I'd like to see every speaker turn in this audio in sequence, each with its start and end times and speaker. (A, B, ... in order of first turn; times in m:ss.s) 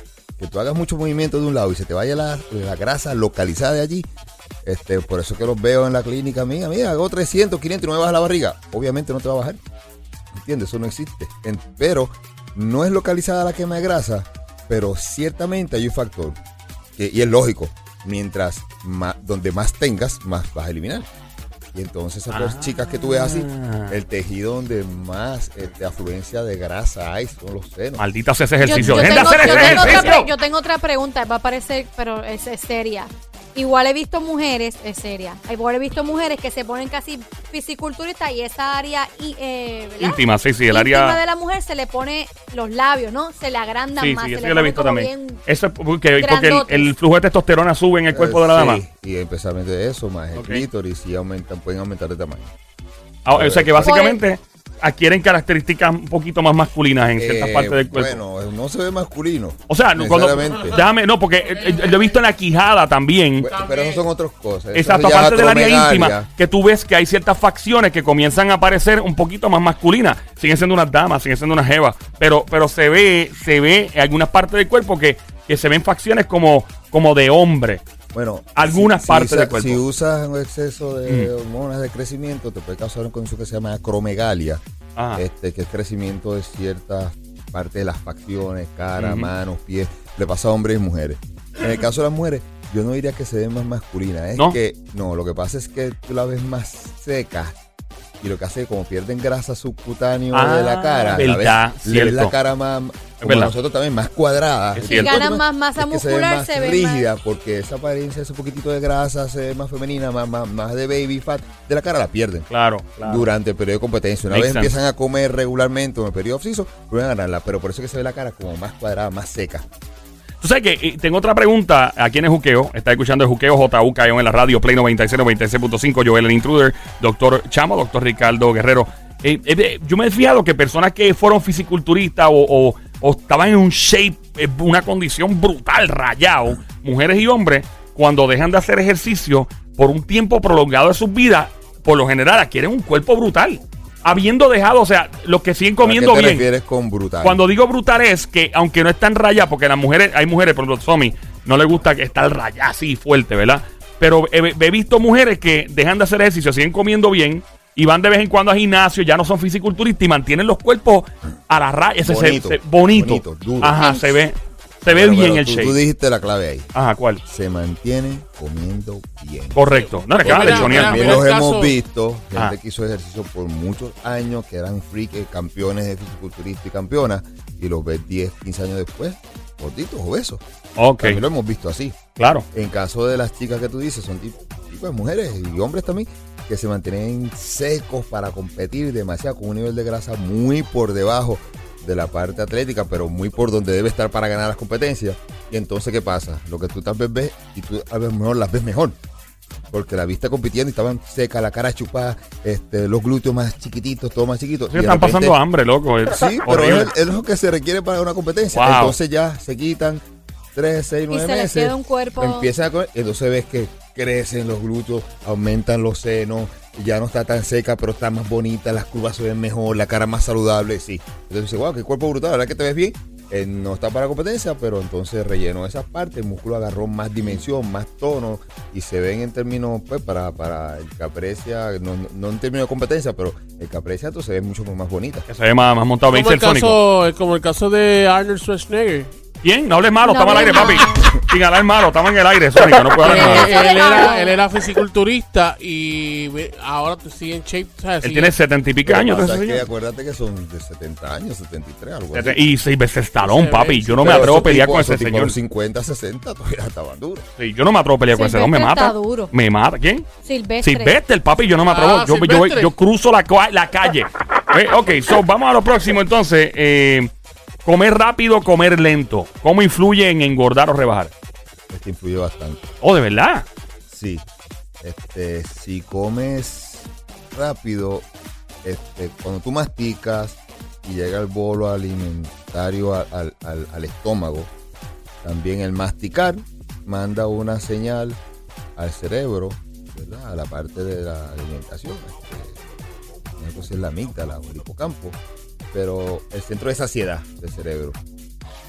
0:00.4-0:04.1 A
0:04.6-0:09.6 A
0:10.3-0:16.4 A
0:17.0-0:21.1 A
0:21.7-0:28.0 A
0:22.3-0:24.0 B
0:28.0-0:30.3 B
0:28.6-0:45.4 C
0:28.6-0:30.2 A
0:40.0-0:41.2 B
0:44.0-0:48.8 B
0:46.2-0:46.9 C
0:48.1-0:52.5 A
0:50.3-0:50.6 B
0:53.2-0:58.2 B
0:53.3-0:54.0 A
0:53.8-0:54.2 C
0:57.2-1:00.8 A
0:59.7-1:03.5 B
1:01.5-1:02.2 D
1:03.4-1:06.3 A
1:03.4-1:04.0 D
1:04.7-1:17.8 B
1:18.1-1:37.6 A
1:18.6-1:19.8 B
1:25.0-1:25.2 B
1:29.0-1:29.3 B
1:38.2-1:52.5 A
1:40.3-1:42.4 B
1:43.2-1:43.5 B
1:44.8-1:45.2 B
1:44.9-1:47.1 C
1:52.5-1:53.3 B
1:53.0-1:59.6 A
1:54.3-1:54.7 B
2:00.4-2:26.5 B
2:25.8-2:27.4 A
2:27.2-2:45.8 B
2:42.0-2:43.8 A
2:43.7-2:44.3 C
2:44.9-2:46.7 A
2:46.7-2:47.2 B
2:47.3-2:49.6 A
2:49.6-2:51.2 B
2:50.2-2:51.8 D
2:50.2-3:00.4 A
3:00.8-3:01.2 B
3:01.0-3:02.0 A
3:02.2-3:02.5 B
3:02.5-3:19.0 A
3:19.7-3:25.4 A
3:24.7-3:26.9 B
3:26.1-3:30.0 A
3:28.5-3:29.0 B
3:30.5-3:55.3 A
3:31.1-3:32.5 C
3:55.3-3:56.8 B
3:56.1-3:59.1 D
3:59.4-4:03.6 B
4:00.0-4:01.1 C
4:03.0-4:08.3 D
4:03.0-4:04.4 C
4:08.0-4:09.6 B
4:08.8-4:12.4 A
4:12.1-4:15.4 B
4:13.2-4:14.5 D
4:14.0-4:17.2 A
4:17.4-4:20.1 B
4:18.1-4:19.3 C
4:20.2-4:21.0 C
4:20.6-4:27.1 B
4:21.6-4:22.7 D
4:27.6-4:31.1 B
4:31.7-4:32.7 A
4:32.8-4:33.5 B
4:33.9-4:34.2 A
4:34.8-4:38.1 A
4:38.6-4:44.5 A
4:45.2-4:48.2 A
4:48.8-4:52.6 A
4:53.4-4:55.2 A
4:55.7-4:58.0 A